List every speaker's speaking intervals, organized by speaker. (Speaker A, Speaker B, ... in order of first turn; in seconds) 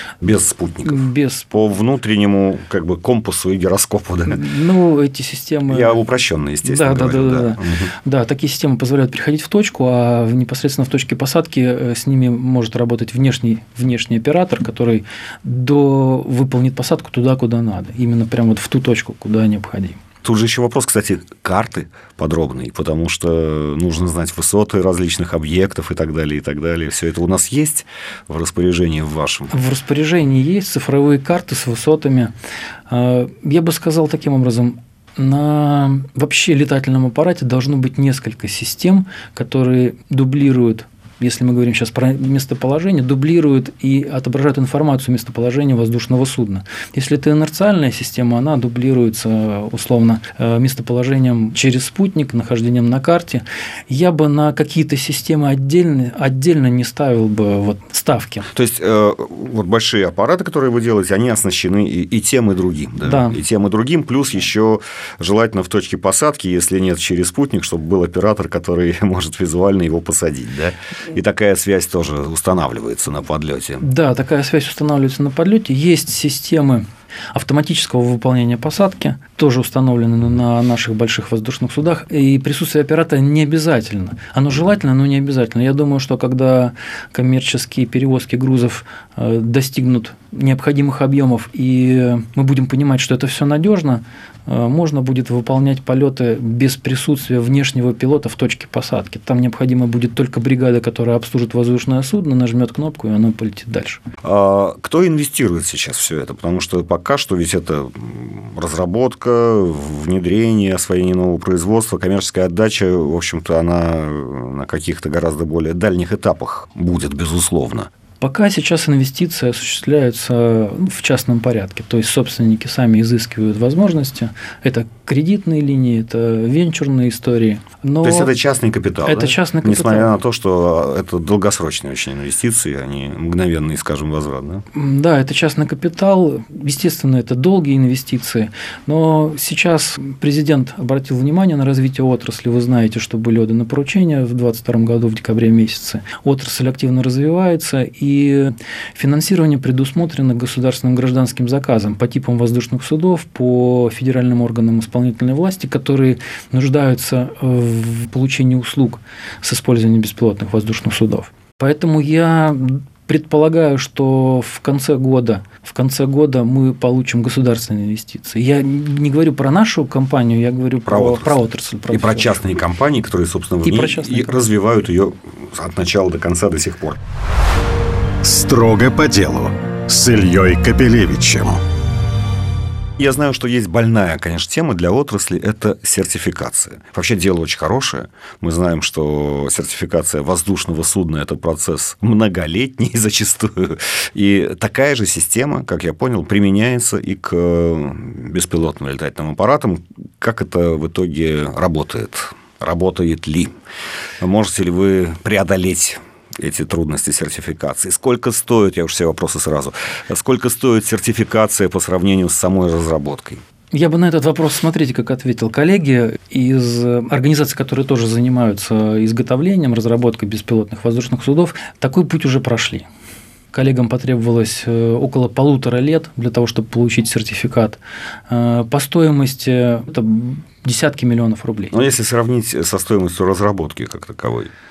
Speaker A: 0.2-4.5, 5.7-7.9, 20.2-29.5, 58.5-73.8, 104.2-117.9, 128.0-134.7, 170.9-177.0, 183.0-203.5, 204.2-213.4, 231.7-234.5
Speaker B: 0.8-1.5, 4.3-6.0, 6.6-20.0, 29.5-32.3, 32.9-58.5, 63.0-63.4, 73.8-104.0, 118.2-128.3, 129.1-130.1, 134.7-172.4, 173.6-174.3, 213.7-222.8, 223.5-231.8
Speaker C: 178.2-181.6